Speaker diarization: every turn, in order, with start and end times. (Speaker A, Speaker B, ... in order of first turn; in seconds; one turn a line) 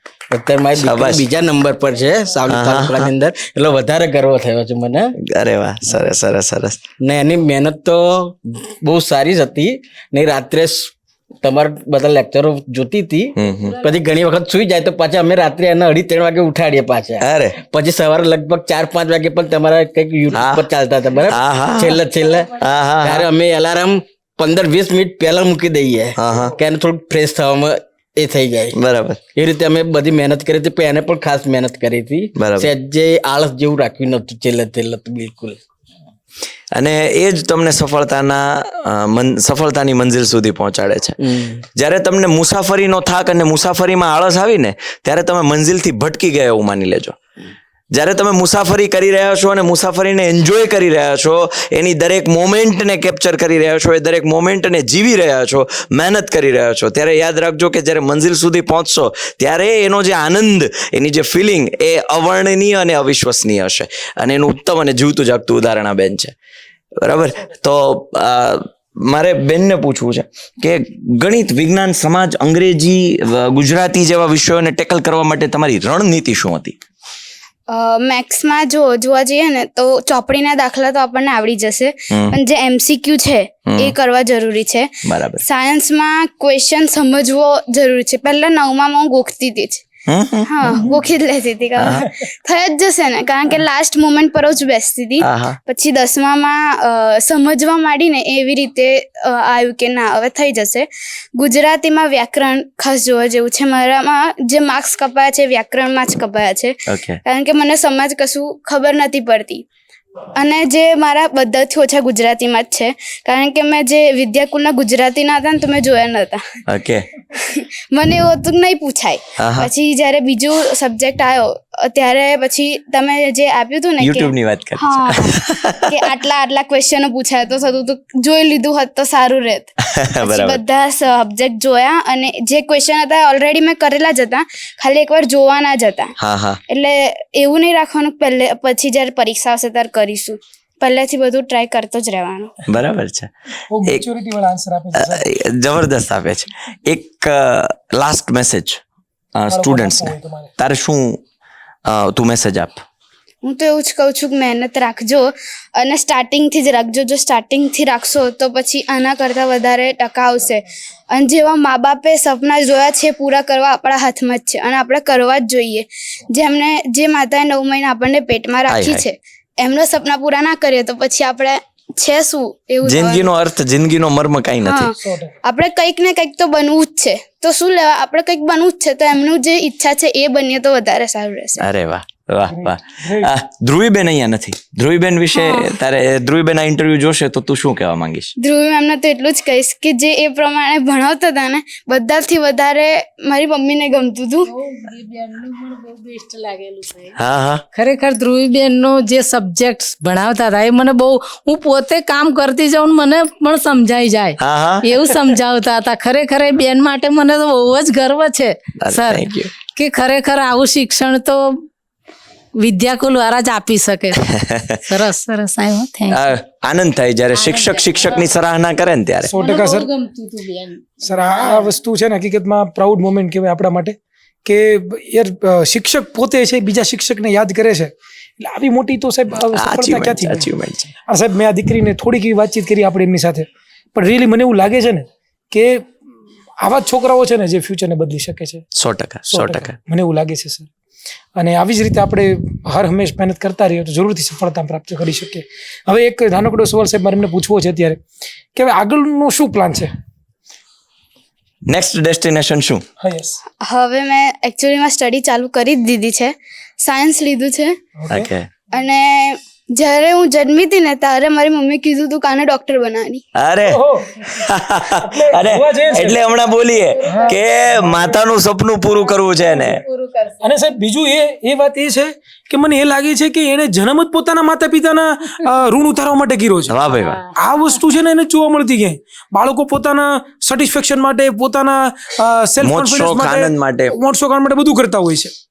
Speaker A: 0.3-5.1
Speaker B: 0.8-1.3
Speaker B: 2.5-3.1
Speaker B: 5.3-6.8
Speaker A: 7.0-28.8
Speaker B: 13.4-13.8
Speaker B: 17.2-17.6
Speaker B: 20.3-20.6
Speaker B: 21.3-22.0
Speaker B: 22.6-23.3
Speaker B: 26.2-26.6
Speaker B: 28.8-29.2
Speaker A: 29.3-35.6
Speaker B: 32.4-32.7
Speaker B: 36.7-41.2
Speaker A: 41.2-41.6
Speaker B: 41.8-47.1
Speaker B: 47.9-66.3
Speaker B: 67.0-76.8
Speaker C: 77.7-89.8
Speaker B: 82.1-82.4
Speaker B: 83.7-83.9
Speaker B: 85.1-85.4
Speaker B: 90.1-90.8
Speaker C: 90.5-109.6
Speaker B: 91.8-92.0
Speaker B: 95.2-95.6
Speaker B: 106.9-107.2
Speaker C: 110.4-116.4
Speaker B: 116.7-117.1
Speaker C: 117.3-136.1
Speaker B: 119.4-119.7
Speaker B: 124.0-125.9
Speaker B: 130.1-130.6
Speaker B: 136.2-136.6
Speaker C: 136.7-142.5
Speaker B: 142.7-143.3
Speaker D: 143.7-145.3
Speaker B: 145.0-148.8
Speaker B: 149.3-151.2
Speaker D: 149.5-150.5
Speaker B: 151.9-152.8
Speaker C: 153.4-173.3
Speaker B: 168.7-169.1
Speaker B: 172.8-174.9
Speaker C: 174.6-181.6
Speaker D: 175.1-175.3
Speaker B: 181.6-188.3
Speaker D: 182.5-183.3
Speaker C: 185.3-185.7
Speaker C: 188.4-194.5
Speaker E: 194.4-197.2
Speaker B: 197.2-197.6
Speaker E: 197.7-211.6
Speaker B: 204.4-204.9
Speaker B: 208.8-209.5
Speaker E: 212.6-214.3
Speaker B: 214.4-214.8
Speaker E: 214.8-216.3
Speaker B: 216.1-219.3
Speaker E: 217.3-218.3
Speaker D: 219.2-219.9
Speaker E: 219.3-221.7
Speaker D: 221.0-230.5
Speaker B: 229.5-230.9
Speaker D: 231.1-235.8
Speaker D: 236.6-238.6
Speaker B: 238.8-239.7
Speaker D: 239.3-240.7
Speaker D: 241.4-248.0
Speaker D: 248.6-249.9
Speaker B: 251.7-252.8
Speaker D: 253.0-253.4
Speaker C: 253.6-257.8
Speaker D: 258.0-258.3
Speaker B: 258.1-258.5
Speaker C: 258.7-263.2
Speaker B: 263.4-269.8
Speaker D: 263.7-264.3
Speaker D: 265.0-266.2
Speaker E: 266.8-267.5
Speaker D: 267.1-268.2
Speaker E: 268.9-270.6
Speaker D: 270.4-276.8
Speaker B: 276.7-277.2
Speaker D: 277.3-285.3
Speaker B: 282.6-283.9